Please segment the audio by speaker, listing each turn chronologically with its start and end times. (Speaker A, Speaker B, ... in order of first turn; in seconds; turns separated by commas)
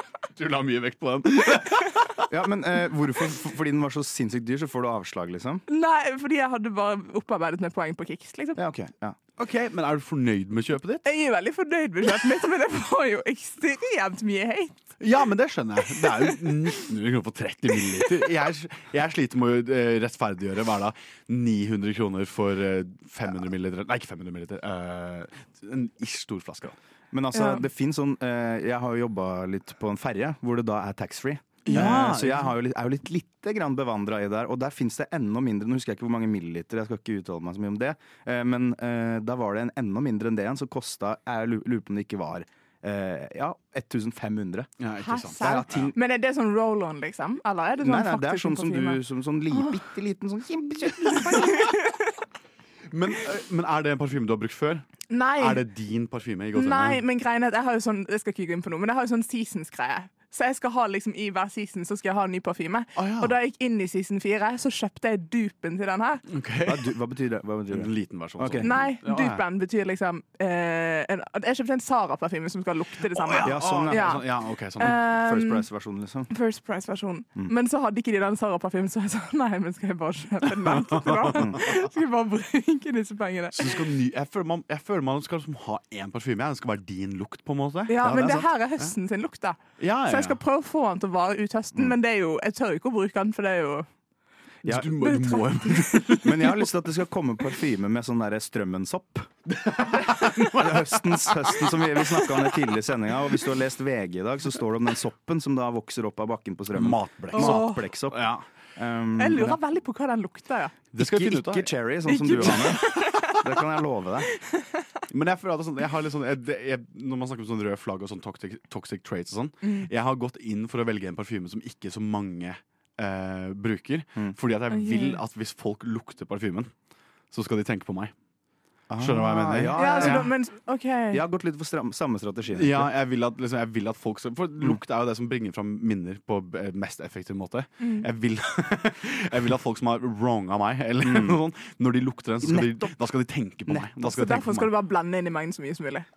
Speaker A: 0.3-2.0, Speaker B: 2.3-5.6, Speaker C: 5.7-8.6, Speaker B: 8.6-9.2, Speaker A: 9.4-11.0, Speaker C: 11.0-14.7, Speaker A: 15.0-26.7, Speaker C: 16.1-16.5, Speaker B: 27.1-44.7, Speaker C: 27.3-27.6, Speaker A: 31.6-32.5, Speaker A: 44.8-45.9, Speaker C: 45.0-49.8, Speaker B: 45.4-45.9, Speaker B: 47.8-51.6, Speaker C: 51.1-51.8, Speaker A: 52.9-54.8, Speaker C: 55.1-55.6, Speaker A: 55.3-57.0, Speaker C: 56.5-66.2, Speaker A: 63.0-63.4, Speaker A: 66.3-66.9, Speaker B: 66.7-68.7, Speaker A: 67.7-69.4, Speaker C: 68.6-74.2, Speaker A: 73.1-75.0, Speaker B: 73.4-74.2, Speaker C: 74.8-75.7, Speaker B: 75.0-76.3, Speaker C: 76.3-83.9, Speaker A: 80.7-81.5, Speaker B: 81.3-81.6, Speaker A: 83.5-88.9, Speaker C: 87.9-93.9, Speaker B: 88.0-88.5, Speaker A: 89.8-90.4, Speaker B: 94.6-94.9, Speaker A: 94.6-96.3, Speaker C: 95.0-96.0, Speaker B: 96.2-99.3, Speaker A: 99.6-100.9, Speaker B: 100.5-109.6, Speaker A: 106.7-108.4, Speaker C: 107.3-107.9, Speaker C: 109.2-110.8, Speaker A: 110.9-112.8, Speaker B: 111.0-114.3, Speaker C: 112.0-113.1, Speaker A: 115.1-126.7, Speaker C: 119.6-119.9, Speaker C: 124.7-125.2, Speaker A: 127.3-128.1, Speaker B: 128.9-130.3, Speaker A: 129.0-130.3, Speaker C: 129.8-131.2, Speaker B: 131.1-132.9, Speaker A: 132.5-144.7, Speaker C: 137.8-138.1, Speaker B: 141.0-141.4, Speaker B: 142.4-143.0, Speaker C: 144.0-146.1